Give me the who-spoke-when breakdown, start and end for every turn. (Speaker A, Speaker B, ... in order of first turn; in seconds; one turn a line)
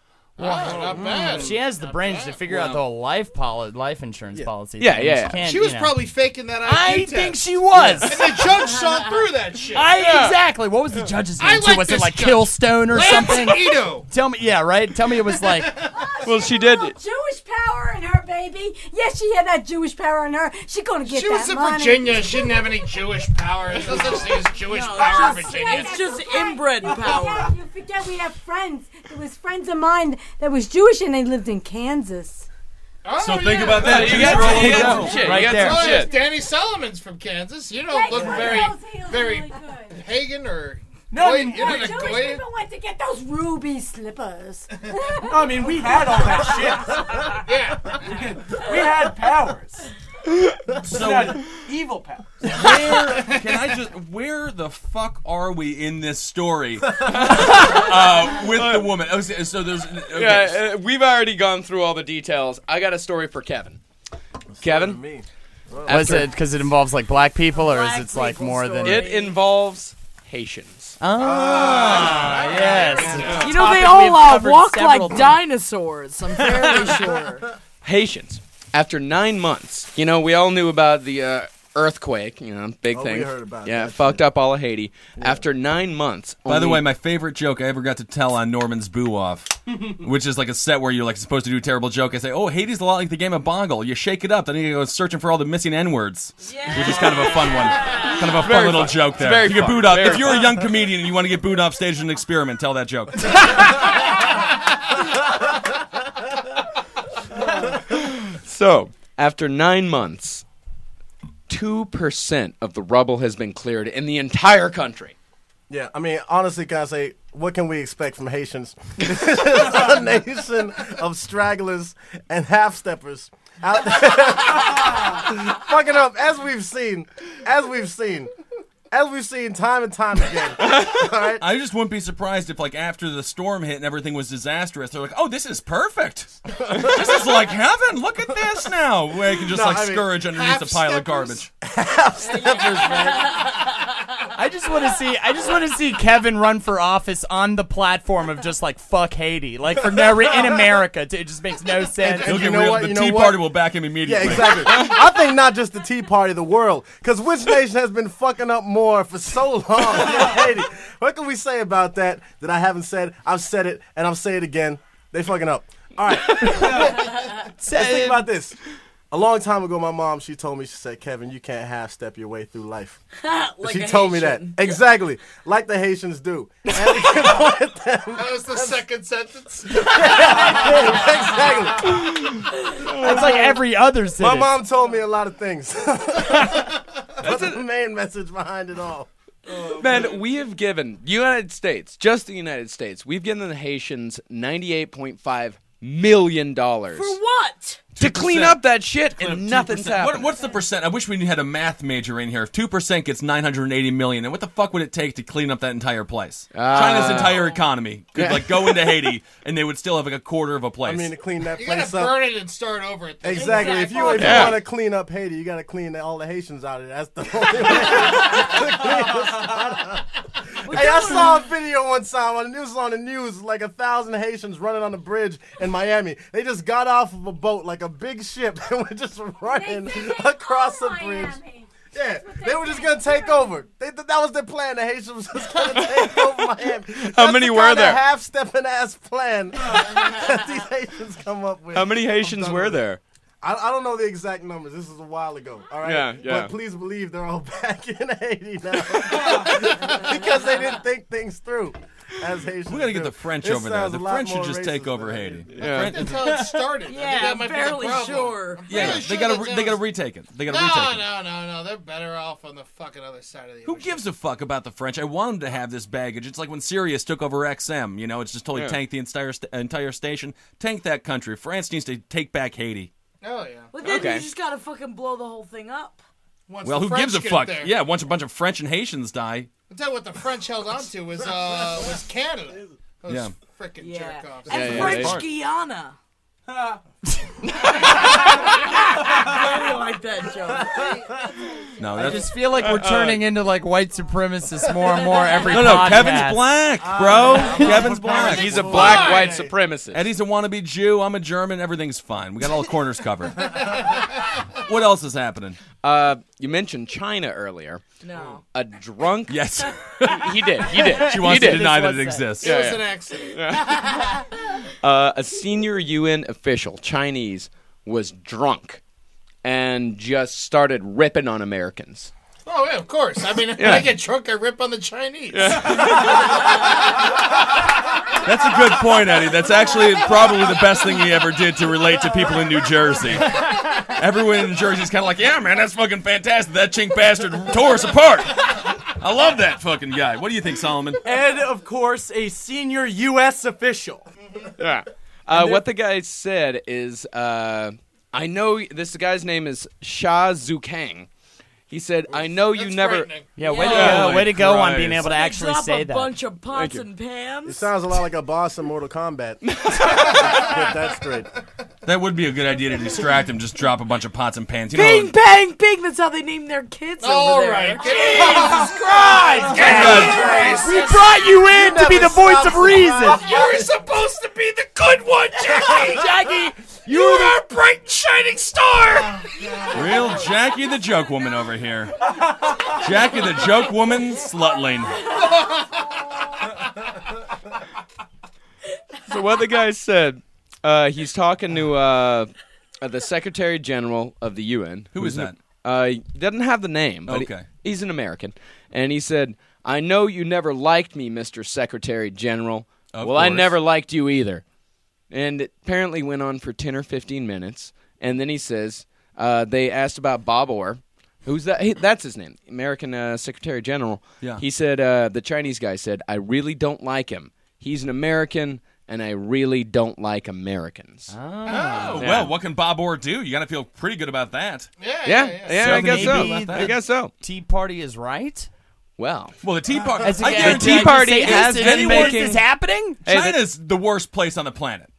Speaker A: 0.4-2.4
Speaker B: 0.4-0.7
Speaker C: 0.5-1.5
Speaker B: 1.3-6.0
Speaker D: 4.8-5.5
Speaker A: 5.4-10.0
Speaker B: 6.6-8.3
Speaker D: 7.7-8.4
Speaker B: 9.7-15.8
Speaker D: 9.9-10.3
Speaker A: 11.4-14.1
Speaker E: 15.7-23.1
Speaker D: 16.2-16.9
Speaker A: 21.1-26.1
Speaker E: 23.9-24.4
Speaker F: 24.6-27.5
Speaker E: 24.9-32.5
Speaker A: 33.0-42.4
Speaker G: 33.2-35.4
Speaker E: 33.5-34.5
Speaker D: 33.8-36.2
Speaker B: 34.2-35.9
Speaker E: 35.5-36.4
Speaker E: 37.9-40.0
Speaker H: 41.1-42.1
Speaker E: 41.4-46.9
Speaker H: 45.3-47.4
Speaker A: 47.4-48.0
Speaker H: 48.1-49.8
Speaker H: 50.8-52.5
Speaker G: 50.8-51.6
Speaker G: 52.4-60.6
Speaker A: 53.2-53.5
Speaker D: 57.0-58.9
Speaker D: 60.1-63.8
Speaker C: 64.5-66.3
Speaker D: 64.6-65.0
Speaker D: 65.8-66.3
Speaker B: 65.8-69.0
Speaker F: 67.5-69.4
Speaker D: 68.8-71.0
Speaker B: 71.0-75.4
Speaker C: 71.2-72.8
Speaker A: 71.7-73.4
Speaker F: 72.6-77.5
Speaker D: 73.2-73.5
Speaker B: 76.4-76.9
Speaker D: 77.8-86.8
Speaker C: 82.9-84.2
Speaker C: 85.2-85.4
Speaker G: 86.5-103.8
Speaker F: 96.4-98.5
Speaker D: 98.2-100.7
Speaker D: 107.8-110.4
Speaker D: 111.5-115.1
Speaker C: 115.7-128.3
Speaker C: 128.9-131.4
Speaker G: 131.4-141.5
Speaker C: 136.6-137.1
Speaker C: 139.4-140.1
Speaker A: 140.2-141.4
Speaker C: 141.6-143.4
Speaker F: 142.3-143.6
Speaker B: 144.3-152.4
Speaker C: 152.0-168.6
Speaker G: 152.2-154.9
Speaker B: 167.6-168.3
Speaker C: 169.1-173.0
Speaker F: 173.2-174.8
Speaker C: 173.6-178.8
Speaker A: 178.1-180.6
Speaker C: 179.7-182.1
Speaker B: 182.9-184.5
Speaker C: 183.1-183.3
Speaker D: 183.1-183.3
Speaker C: 184.2-189.1
Speaker D: 187.2-187.6
Speaker D: 189.7-197.2
Speaker F: 196.9-197.9
Speaker G: 197.9-198.6
Speaker D: 198.0-200.3
Speaker G: 199.2-211.1
Speaker D: 206.5-207.6
Speaker D: 208.1-209.1
Speaker C: 210.8-212.3
Speaker A: 211.5-214.2
Speaker C: 213.2-220.1
Speaker F: 213.3-214.6
Speaker D: 214.1-214.6
Speaker F: 220.6-221.4
Speaker C: 220.7-231.4
Speaker E: 229.4-233.6
Speaker C: 231.9-242.8
Speaker D: 235.8-236.3
Speaker D: 237.0-238.0
Speaker D: 241.7-243.0
Speaker C: 243.4-255.5
Speaker D: 245.8-246.5
Speaker G: 252.7-256.4
Speaker D: 255.5-256.0
Speaker A: 255.7-259.9
Speaker F: 256.8-259.0
Speaker G: 258.7-261.1
Speaker A: 260.5-264.0
Speaker G: 263.6-272.9
Speaker D: 268.5-268.8
Speaker A: 273.2-273.7
Speaker F: 273.7-276.0
Speaker D: 273.8-274.3
Speaker A: 276.5-277.8
Speaker G: 276.6-279.5
Speaker A: 279.7-284.8
Speaker C: 281.4-281.8
Speaker G: 283.1-283.3
Speaker F: 283.8-286.0
Speaker D: 284.5-285.2
Speaker G: 284.6-285.3
Speaker F: 287.8-291.0
Speaker G: 291.8-292.3
Speaker B: 291.9-296.4
Speaker D: 292.6-293.2
Speaker G: 295.5-299.0
Speaker C: 296.8-299.5
Speaker D: 298.0-300.1
Speaker A: 298.5-299.4
Speaker G: 299.9-303.7
Speaker A: 303.5-304.2
Speaker G: 304.6-305.6
Speaker D: 305.8-307.8
Speaker F: 308.0-308.4
Speaker D: 308.5-311.8
Speaker G: 309.3-312.7
Speaker B: 310.6-312.4
Speaker A: 312.4-314.1
Speaker D: 312.4-314.1
Speaker D: 314.8-318.8
Speaker D: 319.4-322.1
Speaker A: 322.4-325.9
Speaker D: 323.6-324.0
Speaker D: 325.3-326.5
Speaker G: 328.2-341.0
Speaker H: 341.0-344.1
Speaker D: 344.6-351.1
Speaker H: 345.3-345.6
Speaker D: 351.7-354.5
Speaker A: 352.1-353.4
Speaker B: 353.4-356.1
Speaker F: 353.4-354.2
Speaker G: 353.6-355.0
Speaker F: 355.0-357.7
Speaker D: 356.5-356.9
Speaker C: 357.4-361.3
Speaker D: 359.4-360.5
Speaker G: 361.8-365.1
Speaker F: 364.7-370.5
Speaker A: 367.0-371.1
Speaker B: 369.4-373.2
Speaker C: 369.5-373.7
Speaker G: 369.6-370.2
Speaker A: 373.1-376.1
Speaker B: 375.8-377.4
Speaker A: 376.9-380.2
Speaker G: 379.7-385.1
Speaker A: 385.1-385.8
Speaker D: 389.1-404.4
Speaker G: 394.9-395.4
Speaker G: 397.1-397.5
Speaker G: 402.9-403.6
Speaker D: 405.1-421.1
Speaker B: 421.1-422.1
Speaker G: 421.4-424.7
Speaker A: 421.5-422.0
Speaker D: 422.0-422.3
Speaker A: 424.8-425.7
Speaker D: 425.0-427.1
Speaker B: 425.6-428.5
Speaker G: 425.6-426.8
Speaker D: 429.0-429.4
Speaker G: 429.4-432.4
Speaker B: 430.0-433.0
Speaker D: 430.2-432.4
Speaker D: 433.1-433.4
Speaker G: 433.1-434.9